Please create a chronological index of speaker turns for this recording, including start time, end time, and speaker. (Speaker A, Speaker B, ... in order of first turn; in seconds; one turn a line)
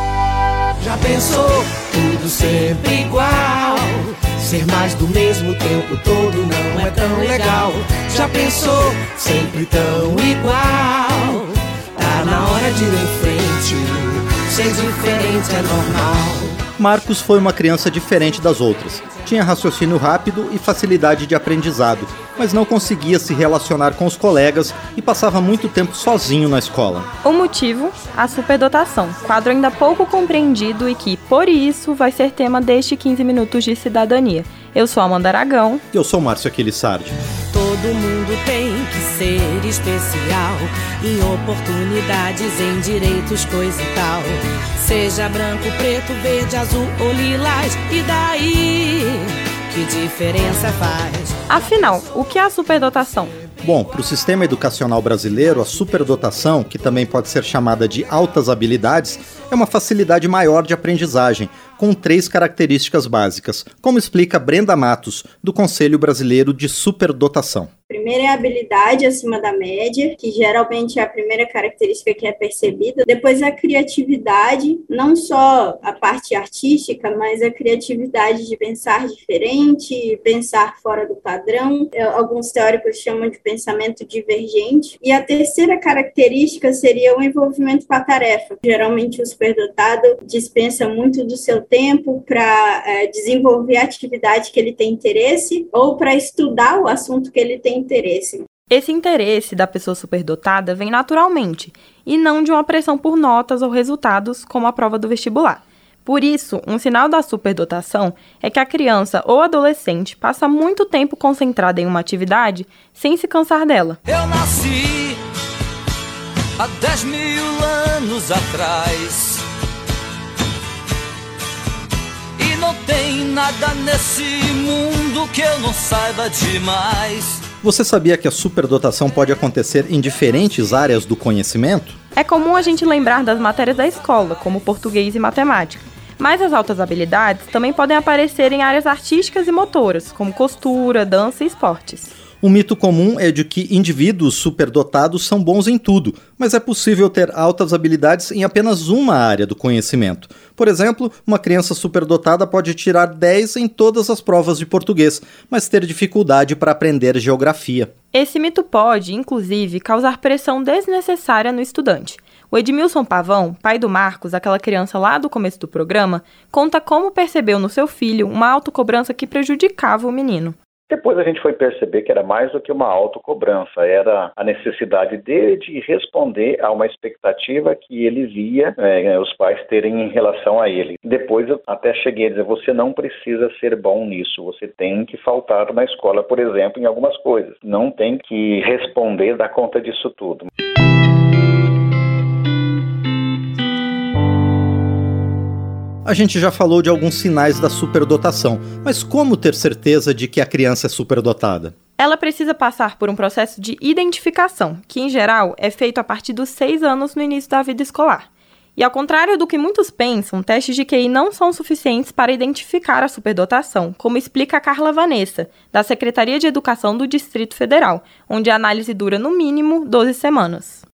Speaker A: 0.9-3.8
Speaker A: 4.5-11.3
Speaker A: 12.0-13.9
Speaker A: 14.5-16.4
Speaker B: 16.8-27.1
Speaker C: 27.2-35.8
Speaker B: 35.9-37.2
Speaker D: 37.5-51.3
Speaker C: 51.5-53.3
Speaker B: 53.6-67.7
Speaker E: 67.9-98.5
Speaker C: 98.7-114.0
Speaker F: 114.1-115.2
Speaker F: 116.6-119.4
Speaker F: 122.4-127.5
Speaker B: 127.6-132.0
Speaker C: 132.2-142.1
Speaker B: 142.4-157.9
Speaker C: 158.1-170.6
Speaker G: 170.9-190.5
Speaker B: 196.1-201.7
Speaker C: 202.0-220.8